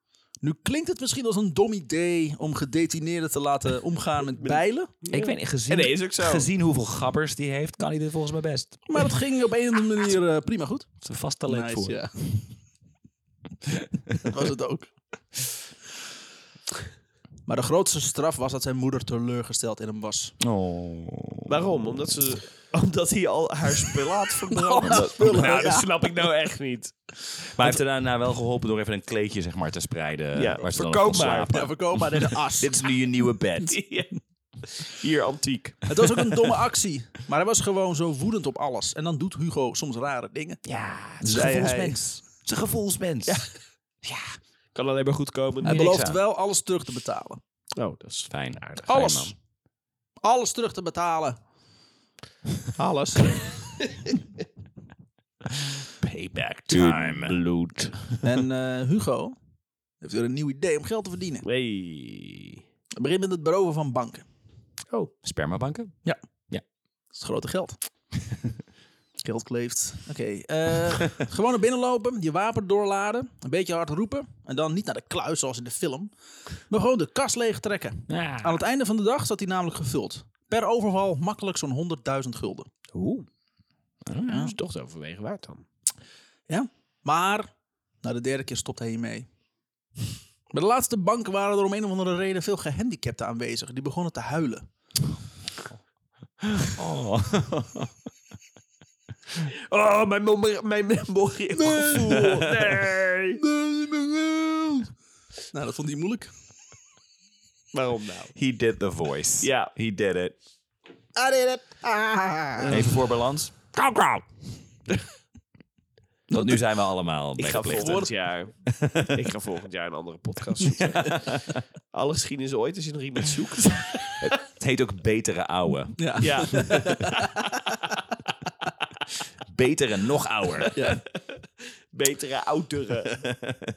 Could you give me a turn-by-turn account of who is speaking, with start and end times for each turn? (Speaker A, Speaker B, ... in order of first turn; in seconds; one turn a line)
Speaker A: 0.4-4.9
Speaker B: 4.4-6.5
Speaker C: 5.1-9.1
Speaker A: 8.9-12.5
Speaker C: 11.0-12.1
Speaker A: 14.2-14.9
Speaker A: 17.5-20.4
Speaker C: 20.4-22.1
Speaker B: 21.4-26.9
Speaker A: 24.5-26.0
Speaker C: 24.8-25.6
Speaker C: 27.5-33.8
Speaker B: 30.3-31.7
Speaker A: 31.5-32.9
Speaker B: 33.7-36.0
Speaker A: 35.9-40.6
Speaker B: 40.6-41.5
Speaker C: 41.2-43.4
Speaker A: 41.2-42.0
Speaker B: 44.0-45.9
Speaker A: 45.6-47.4
Speaker C: 45.6-46.2
Speaker B: 47.8-49.0
Speaker C: 48.3-49.3
Speaker A: 48.9-49.3
Speaker A: 50.2-51.4
Speaker A: 52.7-53.5
Speaker B: 56.0-58.0
Speaker C: 56.7-57.4
Speaker A: 58.2-59.3
Speaker A: 60.0-61.5
Speaker B: 61.4-62.6
Speaker A: 63.0-64.2
Speaker C: 65.2-66.0
Speaker A: 67.1-67.8
Speaker A: 69.2-76.1
Speaker A: 76.7-82.7
Speaker C: 78.1-78.6
Speaker B: 82.9-83.3
Speaker C: 84.0-84.5
Speaker A: 84.3-84.5
Speaker B: 84.3-85.6
Speaker A: 86.5-89.3
Speaker A: 90.5-94.7
Speaker C: 96.6-97.9
Speaker B: 99.4-103.4
Speaker A: 101.6-102.5
Speaker C: 102.1-102.7
Speaker A: 103.4-104.9
Speaker A: 105.5-106.3
Speaker B: 107.7-108.3
Speaker C: 108.3-110.3
Speaker B: 109.4-109.7
Speaker B: 111.2-112.8
Speaker A: 112.6-112.9
Speaker C: 112.6-114.2
Speaker C: 116.3-118.1
Speaker B: 117.4-124.3
Speaker A: 117.8-118.1
Speaker C: 118.7-119.2
Speaker C: 120.7-121.6
Speaker C: 124.2-126.8
Speaker A: 126.0-127.5
Speaker B: 126.2-127.4
Speaker C: 129.5-130.8
Speaker B: 130.6-133.3
Speaker A: 130.7-131.0